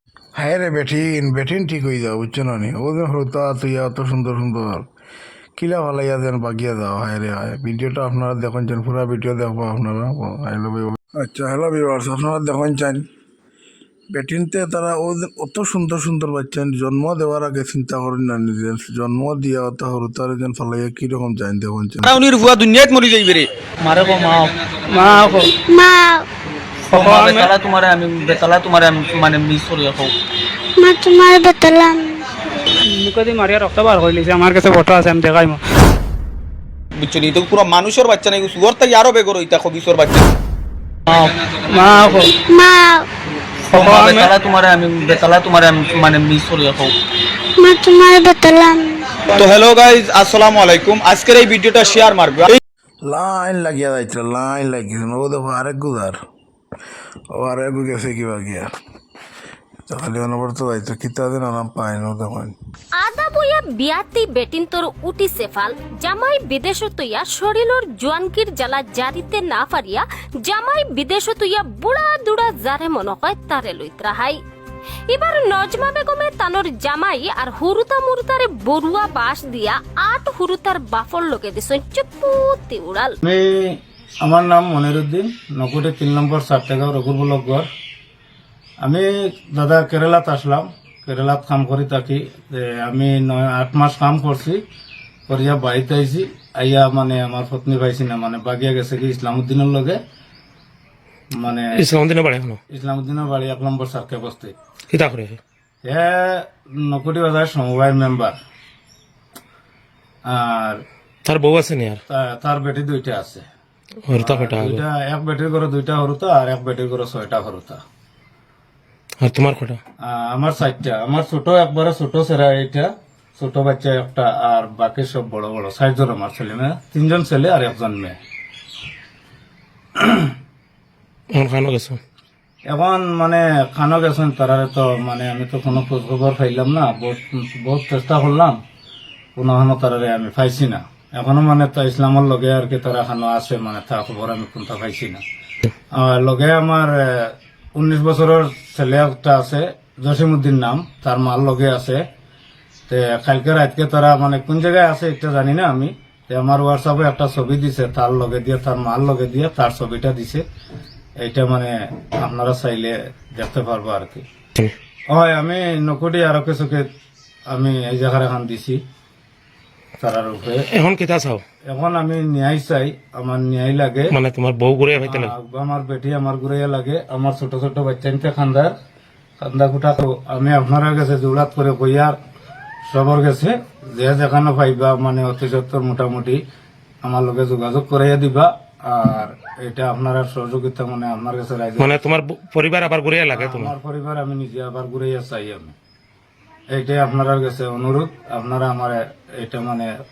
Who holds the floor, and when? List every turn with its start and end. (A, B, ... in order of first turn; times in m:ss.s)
0:00.4-0:04.8 A
0:05.6-0:13.1 A
0:14.1-0:22.2 A
0:22.0-0:24.5 B
0:24.9-0:25.5 C
0:25.7-0:26.2 D
0:26.9-0:27.5 C
0:26.9-0:30.1 B
0:30.8-0:32.2 D
0:32.8-0:35.6 C
0:37.0-0:40.3 B
0:41.7-0:42.3 C
0:42.5-0:43.1 D
0:43.7-0:46.9 B
0:43.7-0:44.3 C
0:47.6-0:49.0 D
0:49.3-0:52.6 B
0:53.0-0:56.2 A
0:57.3-0:58.7 A
0:59.9-1:02.6 A
1:03.0-1:14.4 E
1:15.1-1:23.1 E
1:23.2-1:27.7 F
1:28.8-1:34.6 F
1:35.3-1:40.0 F
1:41.4-1:41.8 F
1:41.7-1:42.6 G
1:42.7-1:44.5 F
1:44.9-1:45.4 G
1:45.8-1:48.3 F
1:50.2-1:50.8 F
1:51.2-1:52.0 G
1:52.1-1:53.4 F
1:54.1-1:54.8 G
1:54.2-1:57.8 F
1:59.2-1:59.8 G
2:00.0-2:08.2 F
2:10.0-2:10.2 F
2:11.3-2:12.0 G
2:12.7-2:18.5 F
2:19.4-2:25.2 F
2:26.0-2:32.0 F
2:32.9-2:40.4 F
2:41.2-2:44.2 F
2:45.1-2:46.8 F
2:47.5-2:48.8 F
2:50.0-2:50.6 F
2:50.6-2:51.4 G
2:51.7-2:54.1 F
2:54.1-2:55.3 G
2:55.0-2:58.7 F
2:59.4-3:02.2 F
3:02.9-3:06.4 F
3:07.0-3:11.9 F
3:11.8-3:13.7 G
3:13.3-3:15.7 F
3:16.7-3:19.9 F